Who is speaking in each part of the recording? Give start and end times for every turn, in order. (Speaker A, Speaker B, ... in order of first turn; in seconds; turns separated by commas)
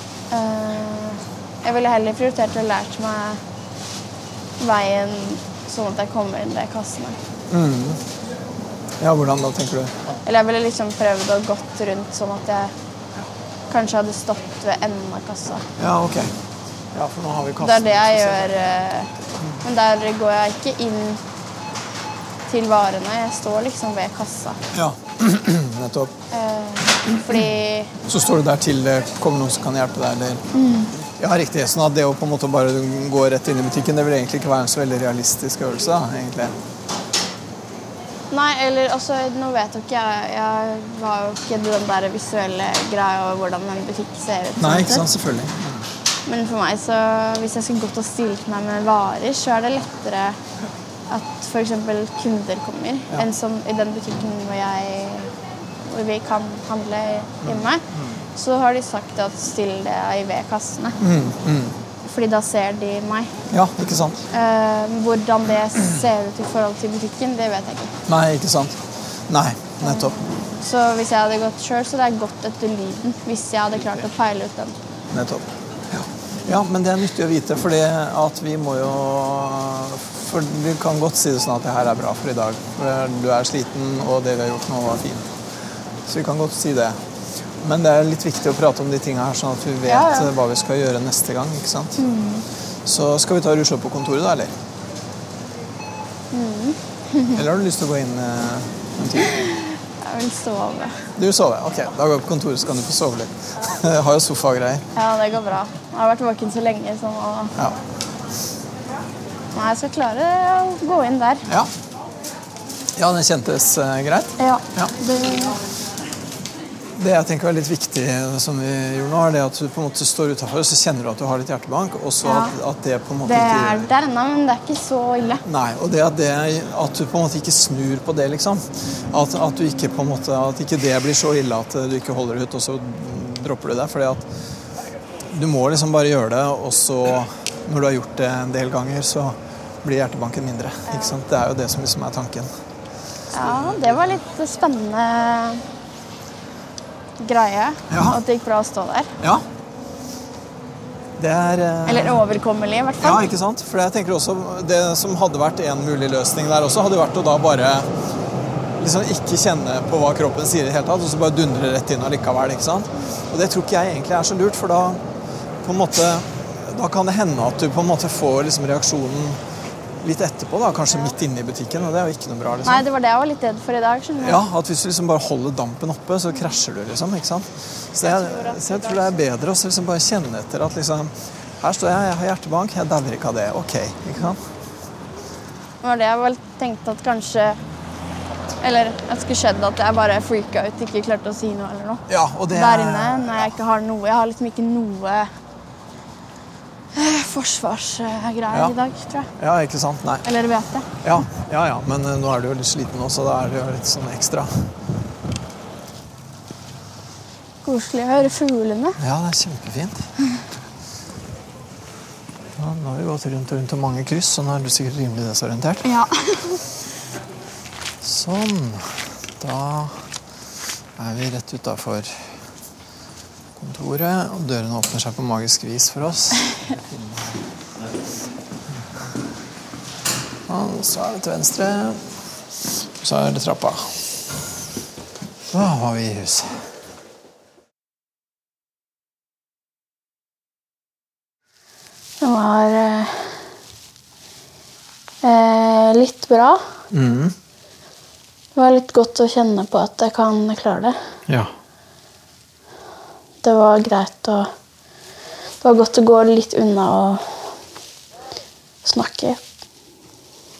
Speaker A: 0.3-3.4, Speaker A: 4.6-7.2, Speaker B: 7.5-8.0, Speaker B: 9.0-10.0, Speaker A: 10.2-12.7, Speaker A: 13.7-15.6, Speaker B: 15.8-16.3, Speaker B: 16.9-18.6, Speaker A: 17.6-21.2, Speaker B: 19.4-19.6, Speaker A: 22.5-24.6, Speaker B: 24.7-26.1, Speaker A: 26.3-27.9, Speaker B: 28.0-30.4, Speaker A: 30.5-30.9, Speaker B: 30.9-36.5, Speaker A: 38.3-45.1, Speaker B: 44.6-45.9, Speaker A: 46.2-50.4, Speaker A: 51.1-55.3, Speaker A: 55.8-57.8, Speaker B: 57.4-58.2, Speaker A: 58.3-61.0, Speaker B: 61.0-61.8, Speaker A: 62.0-63.3, Speaker B: 63.5-64.2, Speaker A: 64.3-67.9, Speaker B: 68.1-70.2, Speaker A: 69.8-74.8, Speaker B: 75.1-85.3, Speaker B: 86.0-87.0, Speaker B: 87.6-92.0, Speaker A: 89.8-90.3, Speaker A: 92.0-92.5, Speaker B: 92.8-94.5, Speaker A: 96.3-97.4, Speaker B: 97.3-99.4, Speaker A: 99.3-101.1, Speaker B: 101.2-104.8, Speaker A: 104.9-107.5, Speaker A: 109.5-111.5, Speaker B: 111.5-111.7, Speaker B: 113.0-114.9, Speaker A: 114.4-115.6, Speaker B: 116.9-123.9, Speaker A: 122.2-122.5, Speaker A: 123.2-125.4, Speaker B: 125.4-134.3, Speaker B: 135.3-142.5, Speaker A: 140.9-141.2, Speaker A: 143.3-145.6, Speaker B: 143.3-144.2, Speaker A: 147.2-149.1, Speaker B: 147.9-148.2, Speaker B: 151.2-152.2, Speaker A: 151.8-153.3, Speaker B: 153.0-157.9, Speaker B: 158.8-165.0, Speaker B: 165.6-169.4, Speaker B: 170.0-172.8, Speaker A: 172.6-174.4, Speaker B: 174.2-184.4, Speaker A: 178.0-179.2, Speaker A: 185.8-187.6, Speaker A: 188.6-195.3, Speaker B: 192.1-193.5, Speaker A: 196.9-199.3, Speaker B: 199.4-200.2, Speaker A: 200.2-200.9, Speaker B: 201.0-204.7, Speaker A: 207.6-209.0, Speaker B: 209.0-210.1, Speaker B: 212.6-215.8, Speaker A: 215.8-216.6, Speaker B: 218.0-220.0, Speaker B: 221.0-222.2, Speaker B: 223.6-227.4, Speaker B: 230.5-232.0, Speaker B: 233.0-234.0, Speaker B: 235.5-236.6, Speaker A: 242.2-243.3, Speaker A: 245.2-246.6, Speaker B: 246.9-247.3, Speaker A: 248.5-250.9, Speaker A: 253.4-254.5, Speaker A: 255.6-257.5, Speaker A: 258.8-259.4